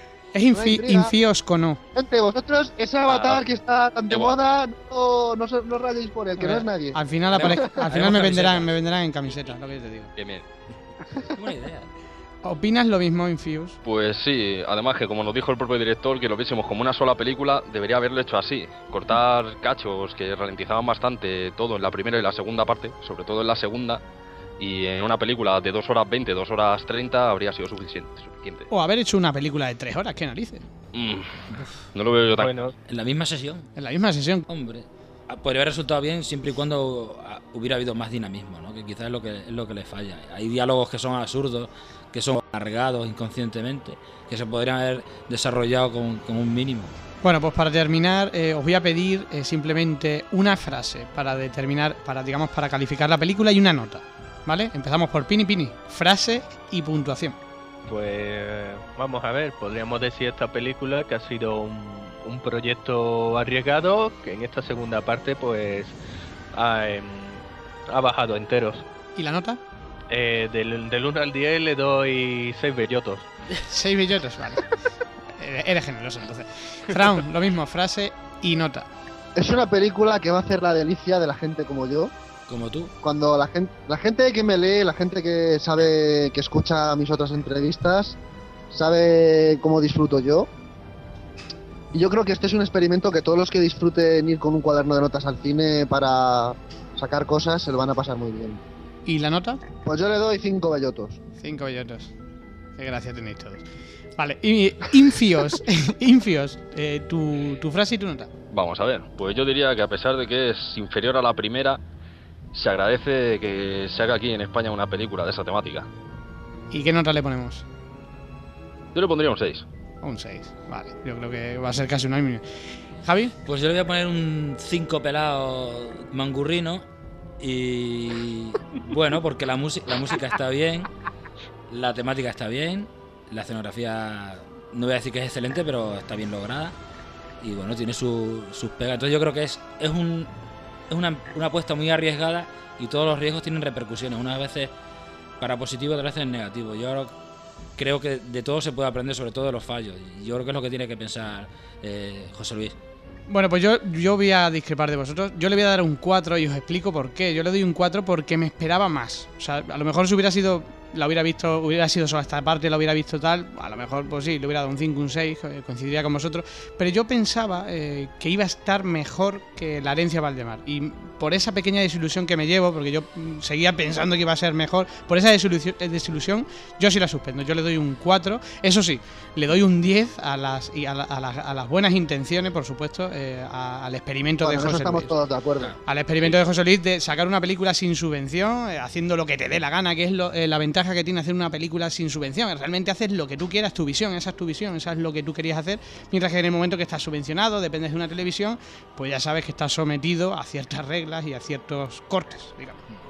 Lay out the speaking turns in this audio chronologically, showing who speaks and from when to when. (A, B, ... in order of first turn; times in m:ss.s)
0:00.3-0:01.8 A
0:00.5-0:01.1 B
0:01.9-0:08.0 B
0:03.1-0:03.5 C
0:04.1-0:04.4 C
0:06.4-0:10.1 A
0:07.3-0:08.8 D
0:10.2-0:10.5 C
0:11.3-0:11.9 D
0:12.4-0:13.8 A
0:13.8-0:24.0 C
0:24.6-0:28.7 C
0:28.7-0:30.7 A
0:30.9-0:32.5 C
0:32.4-0:32.7 E
0:32.9-0:33.7 D
0:33.8-0:34.5 A
0:34.5-0:47.0 D
0:47.2-0:57.4 A
0:57.9-1:06.0 E
1:06.5-1:08.8 E
1:09.2-1:09.6 A
1:10.1-1:13.2 E
1:13.7-1:14.7 A
1:15.3-1:18.9 A
1:19.4-1:22.1 B
1:22.5-1:22.9 D
1:23.0-1:28.2 B
1:28.7-1:30.5 B
1:31.9-1:38.6 B
1:39.1-1:39.6 A
1:39.8-1:41.2 B
1:41.4-1:42.1 A
1:42.8-1:48.3 A
1:48.5-1:51.8 C
1:52.5-1:55.9 C
1:56.7-1:57.6 A
1:59.0-1:59.6 C
2:00.0-2:03.3 A
2:03.4-2:06.8 D
2:07.4-2:10.9 D
2:11.7-2:16.8 D
2:17.4-2:20.3 D
2:20.9-2:24.7 D
2:25.4-2:27.1 D
2:27.8-2:32.8 D
2:33.3-3:05.1 A
3:04.4-3:05.8 B
3:05.6-3:06.4 C
3:05.8-3:22.8 A